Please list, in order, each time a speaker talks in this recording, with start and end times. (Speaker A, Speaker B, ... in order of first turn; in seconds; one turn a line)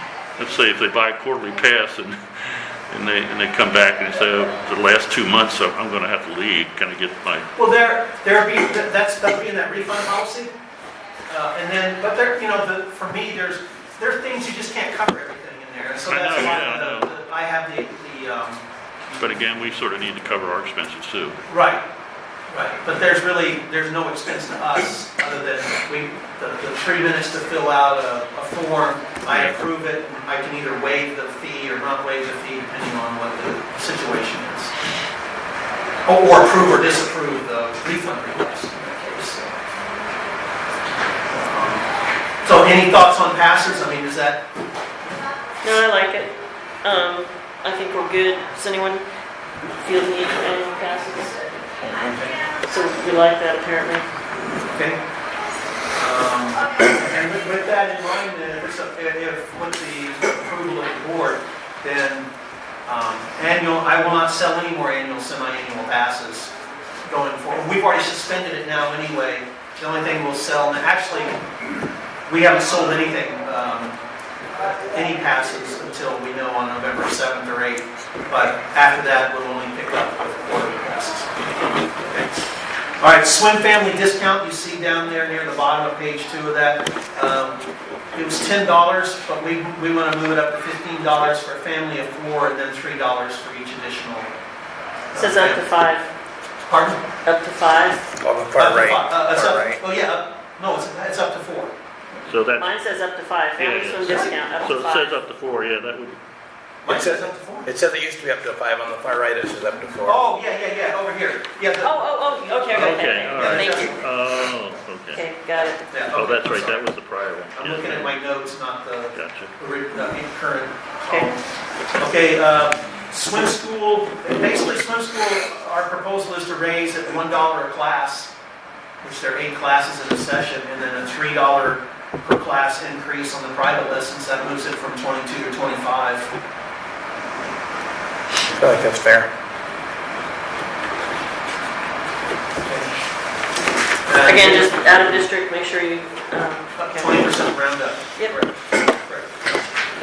Speaker A: 0.4-7.5
Speaker B: 7.5-10.5
Speaker B: 11.3-18.6
Speaker A: 16.1-17.1
Speaker A: 19.1-21.4
Speaker B: 21.5-21.8
Speaker B: 22.5-34.7
Speaker A: 29.3-29.6
Speaker B: 36.0-39.6
Speaker B: 41.3-41.9
Speaker B: 42.4-44.4
Speaker C: 45.6-49.0
Speaker C: 49.8-51.5
Speaker B: 51.9-52.4
Speaker C: 52.6-54.0
Speaker B: 54.7-55.0
Speaker B: 56.0-62.3
Speaker B: 62.9-66.5
Speaker B: 67.0-71.4
Speaker B: 72.2-74.0
Speaker B: 74.6-81.3
Speaker B: 83.0-94.3
Speaker B: 95.1-95.6
Speaker C: 95.2-96.1
Speaker B: 96.7-97.0
Speaker C: 97.2-98.0
Speaker D: 98.2-99.8
Speaker B: 98.6-101.7
Speaker A: 102.3-102.8
Speaker C: 102.6-105.2
Speaker A: 103.6-106.2
Speaker B: 104.0-104.3
Speaker B: 106.8-107.7
Speaker D: 106.9-110.2
Speaker B: 110.0-112.0
Speaker C: 111.8-113.9
Speaker B: 112.7-113.9
Speaker A: 112.7-115.2
Speaker C: 115.1-115.8
Speaker B: 115.7-116.9
Speaker A: 116.1-118.2
Speaker B: 117.5-121.4
Speaker A: 119.1-119.5
Speaker B: 122.0-128.3
Speaker B: 129.0-136.3
Speaker D: 138.5-139.3
Speaker B: 142.6-142.9
Speaker B: 144.0-144.8
Speaker C: 144.2-147.1
Speaker B: 146.8-149.6